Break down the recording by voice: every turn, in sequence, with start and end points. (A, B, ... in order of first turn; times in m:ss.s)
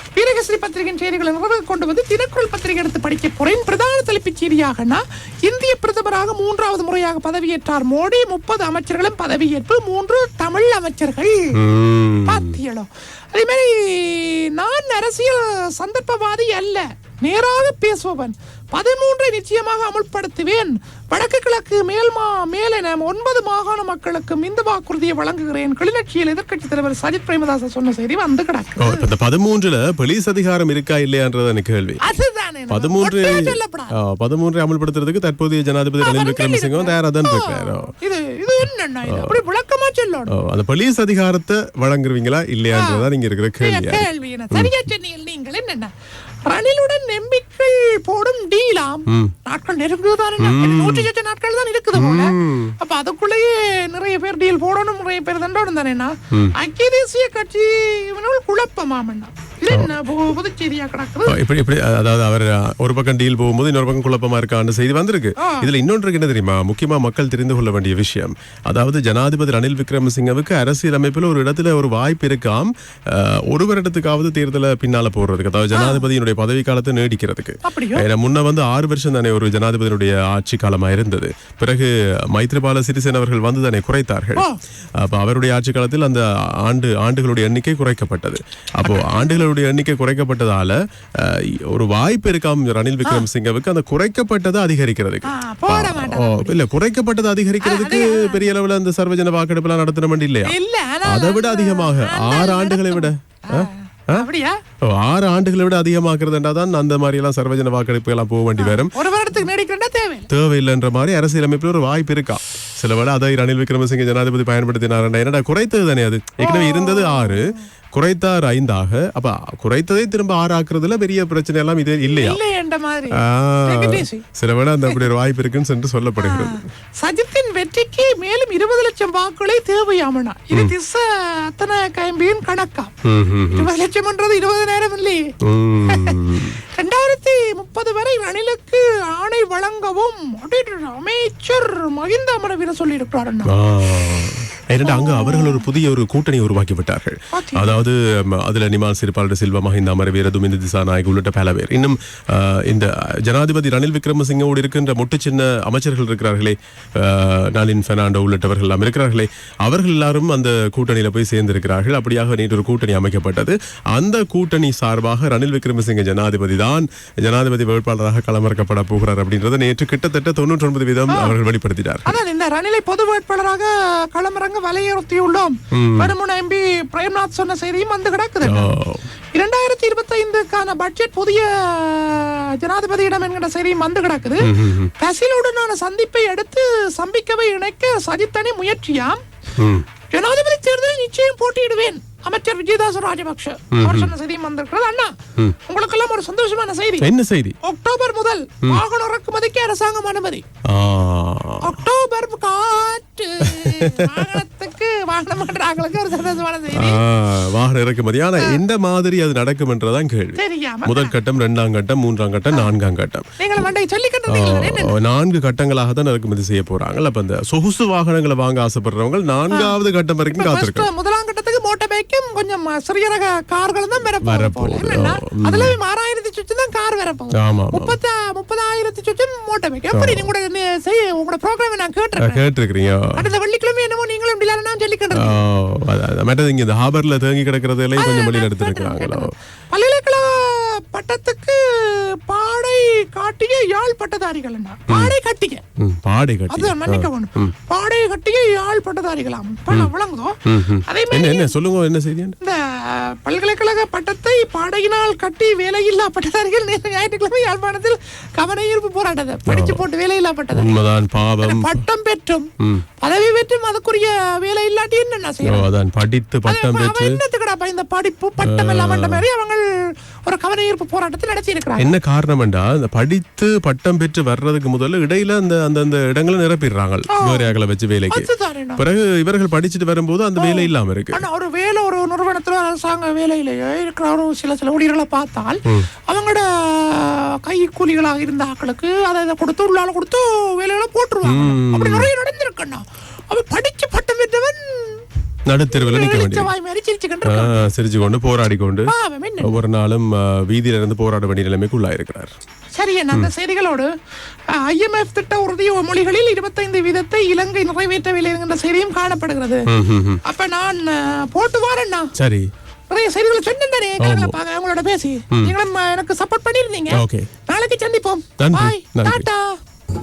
0:00.2-0:11.5 A
0:11.6-0:12.6 B
0:12.3-0:29.1 A
0:28.8-0:32.1 B
0:32.0-0:34.0 A
0:32.7-0:37.9 B
0:36.0-0:40.3 A
0:39.0-0:39.4 B
0:40.3-0:44.8 B
0:42.7-0:43.1 A
0:43.6-0:45.9 A
0:46.5-1:01.4 A
0:49.1-0:49.4 B
0:50.4-0:51.1 B
0:51.9-0:52.8 B
0:59.7-1:00.0 B
1:01.3-1:44.3 B
1:05.4-1:05.7 A
1:15.7-1:16.1 A
1:17.6-1:18.1 A
1:28.8-1:29.4 A
1:35.2-1:36.6 A
1:37.6-1:38.4 A
1:40.4-1:44.6 A
1:44.8-1:49.0 B
1:48.6-1:50.3 A
1:50.3-2:02.4 B
1:56.4-1:57.6 A
2:02.0-2:04.3 A
2:03.1-2:06.6 B
2:06.2-2:12.9 A
2:13.0-2:13.7 B
2:13.5-2:15.3 A
2:15.4-2:16.6 B
2:15.8-2:23.5 A
2:23.5-2:52.2 B
2:24.8-2:25.6 A
2:27.3-2:27.8 A
2:51.1-2:51.4 A
2:52.0-2:58.7 A
2:55.7-2:56.1 B
2:58.4-2:59.1 B
2:59.4-3:09.2 A
3:04.4-3:04.9 B
3:09.6-3:09.9 B
3:10.1-3:17.1 A
3:13.7-3:14.1 B
3:17.0-3:17.6 B
3:17.6-3:20.4 A
3:20.7-3:21.8 B
3:21.6-3:27.0 A
3:23.4-3:24.4 B
3:26.7-3:33.3 B
3:30.4-3:31.2 A
3:33.4-3:34.9 A
3:34.3-3:40.9 B
3:39.5-3:39.8 A
3:40.3-3:52.4 A
3:44.2-3:45.8 B
3:47.4-3:48.0 B
3:49.9-3:50.3 B
3:52.2-3:53.3 B
3:53.1-3:55.4 A
3:55.1-3:59.3 B
3:57.9-4:05.6 A
4:04.9-4:05.2 B
4:05.8-4:07.6 B
4:06.5-4:11.6 A
4:10.5-4:12.4 B
4:12.4-4:20.8 A
4:19.5-4:19.8 B
4:20.5-4:21.8 B
4:21.4-4:22.5 A
4:23.0-4:25.7 A
4:25.4-4:27.2 B
4:26.5-4:31.9 A
4:28.4-4:29.2 B
4:31.8-4:41.2 B
4:37.1-4:37.5 A
4:38.1-4:38.8 A
4:40.4-4:55.0 A
4:51.2-4:52.1 B
4:55.5-4:56.5 B
4:55.7-4:57.7 A
4:57.2-5:02.3 B
4:58.9-4:59.6 A
5:02.7-5:03.9 A
5:04.5-5:09.7 A
5:09.7-5:10.2 B
5:10.2-5:12.1 A
5:12.2-5:12.5 B
5:12.9-5:19.5 A
5:14.0-5:14.4 B
5:16.9-5:17.3 B
5:18.4-5:19.3 B